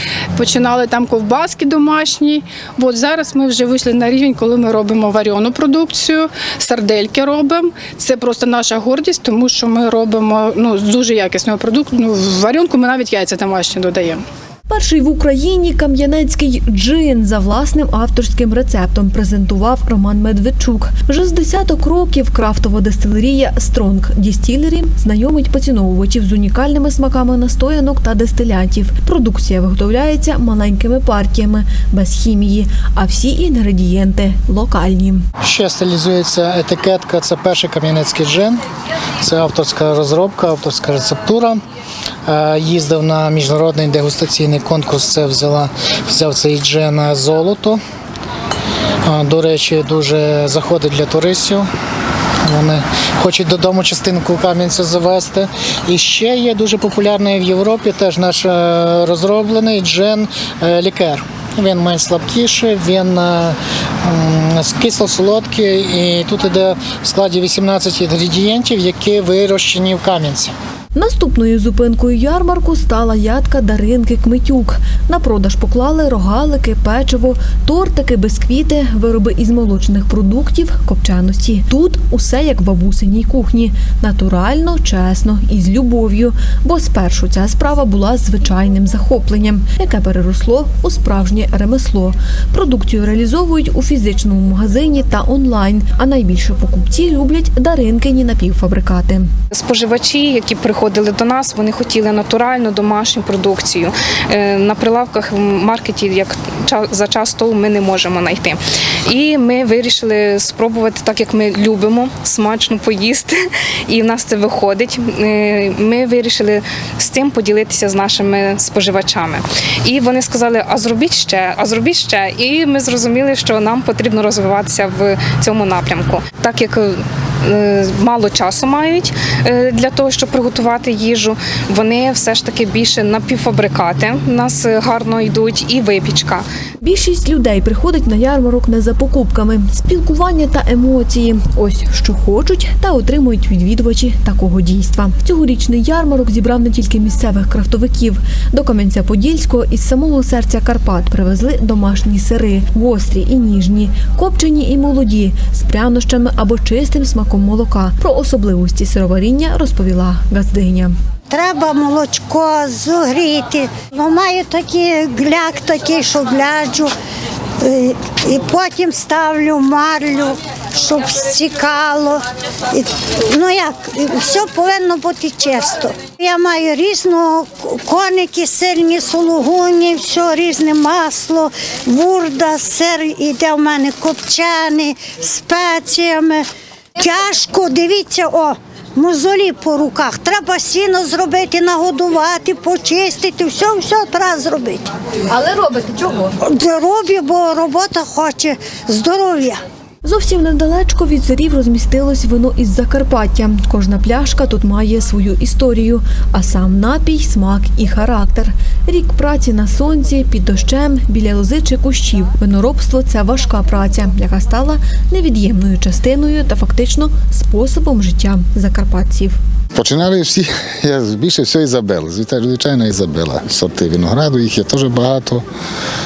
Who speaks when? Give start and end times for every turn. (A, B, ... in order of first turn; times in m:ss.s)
0:00.4-0:14.2 A
0:14.7-0:35.2 B
0:35.4-0:38.6 C
0:39.2-0:41.6 C
0:42.3-0:47.8 C
0:49.0-0:51.7 C
0:52.4-1:10.5 C
1:10.9-1:39.3 B
1:39.5-1:53.4 D
1:53.9-2:16.4 D
2:16.8-2:40.9 B
2:41.3-2:46.9 E
2:47.6-3:06.4 E
3:07.0-3:14.9 E
3:15.4-3:16.2 B
3:16.4-3:19.6 E
3:20.0-3:39.4 B
3:39.7-3:45.4 F